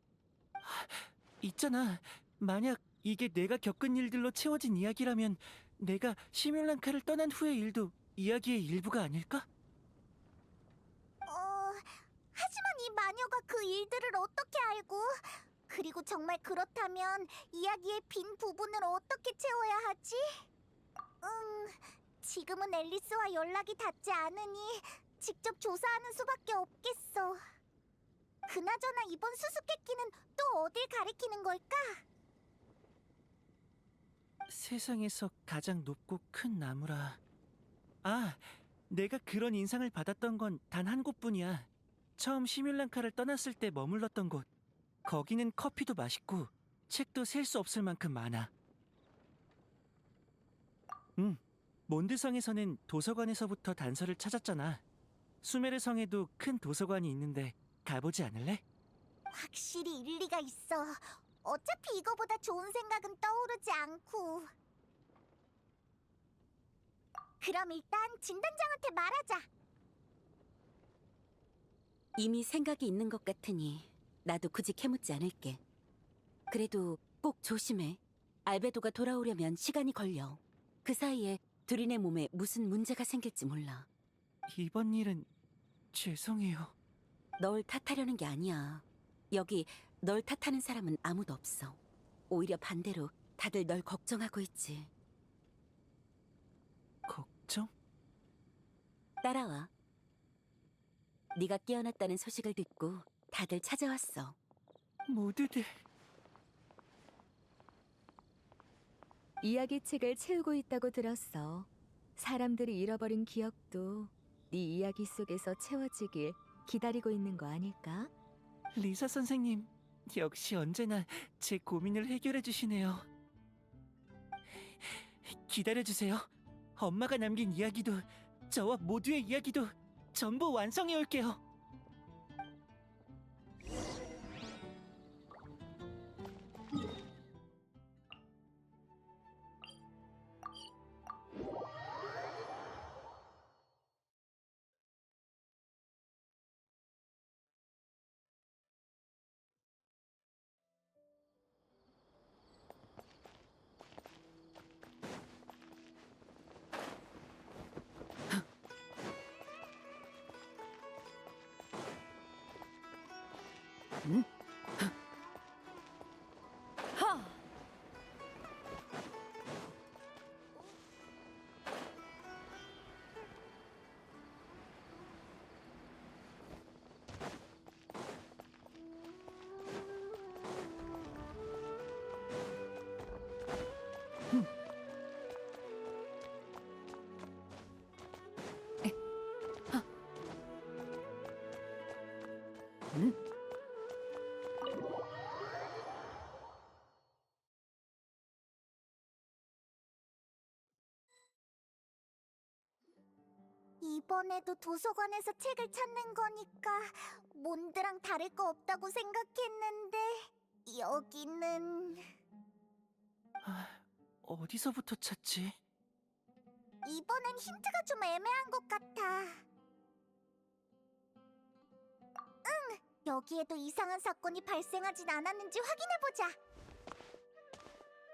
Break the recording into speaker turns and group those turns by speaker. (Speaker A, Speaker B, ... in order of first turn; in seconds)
Speaker A: 0.6-9.5, 34.5-37.2, 38.0-44.5, 45.0-48.5, 51.2-54.8, 55.4-58.6, 84.5-85.3, 85.9-86.7, 97.1-97.7, 105.1-105.8, 118.7-123.1, 124.5-131.4, 213.4-215.6
Speaker B: 11.3-20.4, 21.2-27.4, 28.5-32.0, 59.3-64.5, 67.4-69.5, 203.8-212.0, 216.8-219.4, 222.4-226.3
Speaker C: 72.2-75.6, 76.5-83.9, 87.4-91.8, 92.3-94.9, 99.2-99.7, 101.3-104.4
Speaker D: 109.4-118.1